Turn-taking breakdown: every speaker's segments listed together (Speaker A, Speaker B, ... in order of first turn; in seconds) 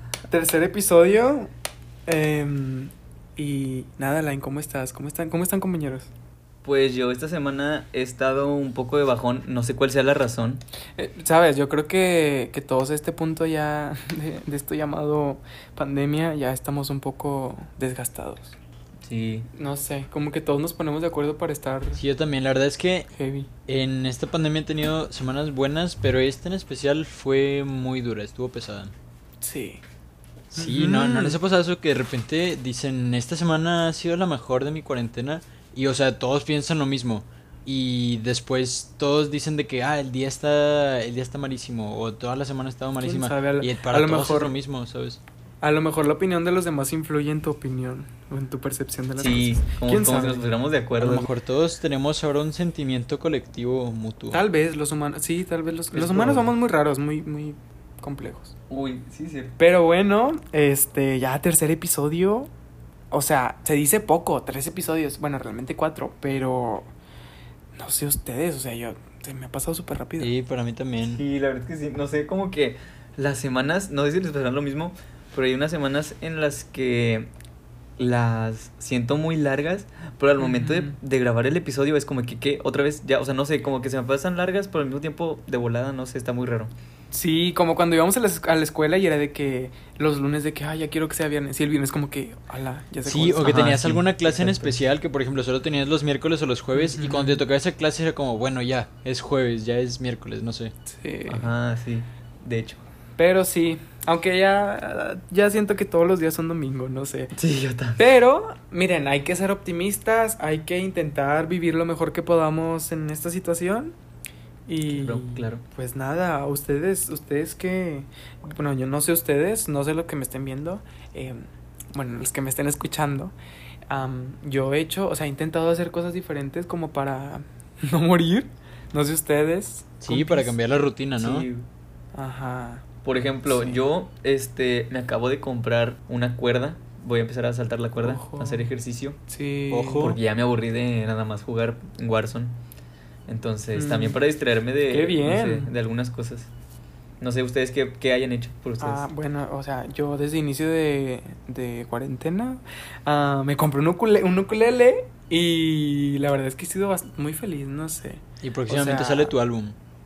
Speaker A: 0.3-1.5, 2.1-6.1, 11.0-18.6, 19.5-22.0, 23.1-23.5, 29.4-29.8, 30.5-31.4, 43.0-44.5, 45.6-50.4, 54.3-58.5, 59.6-62.5, 63.1-66.9, 67.8-70.3, 80.4-81.0, 87.1-93.6, 96.7-97.4, 100.9-101.5, 103.2-107.3, 108.0-113.9, 114.7-123.3, 123.9-130.5, 132.1-132.8, 133.5-133.8, 138.0-138.7, 139.3-140.1, 143.7-144.2, 144.9-145.7, 148.8-159.3
Speaker B: 6.6-10.6, 19.0-19.5, 49.2-51.3, 58.7-59.5, 71.0-77.3, 78.0-86.7, 93.4-94.8, 101.3-102.8, 107.3-108.0, 114.9-115.6, 131.2-131.7, 133.0-139.2, 140.0-142.6, 143.3-146.5, 147.2-149.1
Speaker C: 21.9-23.1, 23.7-28.9, 30.5-45.2, 51.0-54.4, 55.9-56.5, 70.2-71.2, 93.0-100.7, 130.0-131.5, 139.7-140.2, 158.4-159.8